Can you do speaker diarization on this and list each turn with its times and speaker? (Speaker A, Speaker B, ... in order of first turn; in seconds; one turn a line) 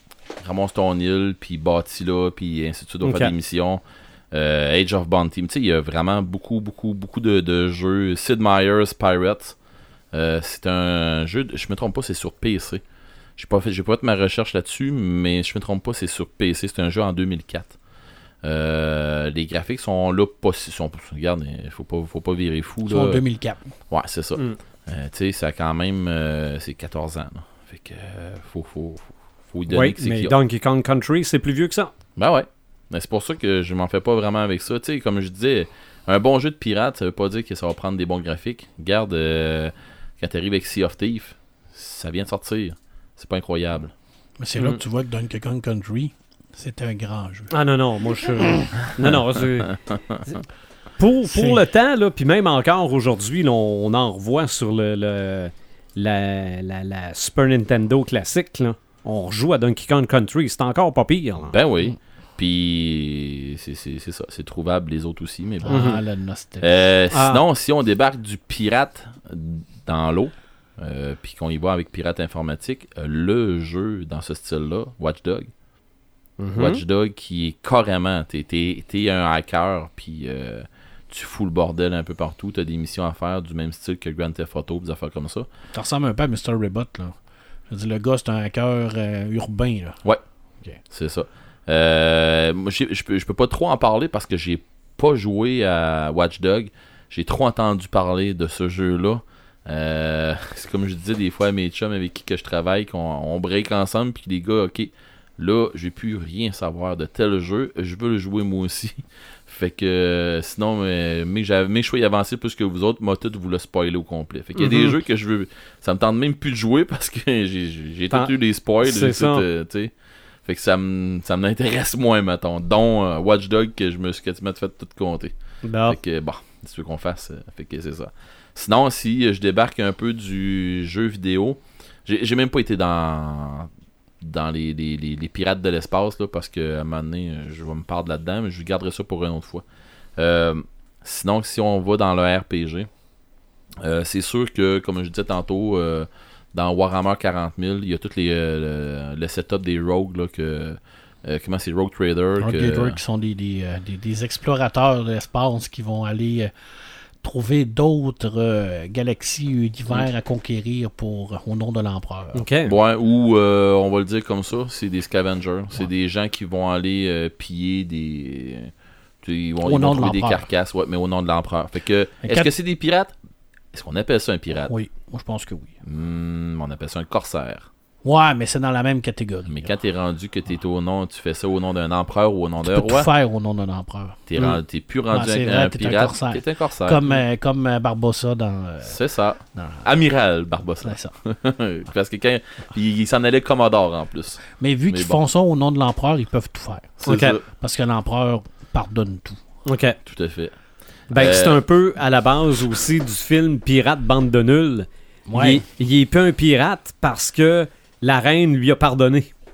Speaker A: 0.4-9.6
Speaker B: 3.0-3.3
Speaker A: 10.1-12.8
Speaker A: 13.4-17.8
Speaker A: 18.4-23.2
Speaker C: 22.9-23.6
Speaker A: 23.9-30.3
Speaker B: 29.7-31.9
Speaker A: 32.2-43.9
Speaker C: 44.4-47.5
Speaker B: 47.5-49.7
Speaker A: 49.7-50.2
Speaker B: 51.0-61.5
Speaker C: 51.3-51.6
Speaker A: 61.4-65.8
Speaker C: 65.6-66.7
Speaker B: 65.7-66.0
Speaker A: 66.6-75.5
Speaker B: 67.1-67.4
Speaker B: 76.4-76.8
Speaker A: 76.6-85.5
Speaker C: 85.7-87.2
Speaker C: 87.7-90.0
Speaker A: 90.9-119.9
Speaker B: 114.6-115.0
Speaker B: 118.8-119.5
Speaker A: 120.5-125.3
Speaker B: 125.6-126.0
Speaker A: 125.9-133.7
Speaker A: 134.2-139.7
Speaker A: 140.2-142.9
Speaker A: 143.8-153.0
Speaker C: 152.4-156.5
Speaker C: 157.2-162.4
Speaker B: 162.3-162.7
Speaker A: 162.7-168.7
Speaker A: 169.2-173.1
Speaker C: 169.6-170.5
Speaker C: 172.2-172.5
Speaker A: 173.7-174.7
Speaker C: 174.6-175.7
Speaker A: 175.8-177.7
Speaker C: 178.0-179.7
Speaker A: 179.5-183.1
Speaker C: 182.7-189.0
Speaker A: 184.3-187.1
Speaker A: 188.8-195.2
Speaker C: 189.6-189.9
Speaker C: 190.8-191.1
Speaker C: 194.6-199.4
Speaker A: 197.0-197.4
Speaker B: 197.1-197.4
Speaker B: 199.7-200.0
Speaker A: 200.1-200.5
Speaker B: 201.1-209.3
Speaker A: 201.1-201.6
Speaker C: 205.3-205.6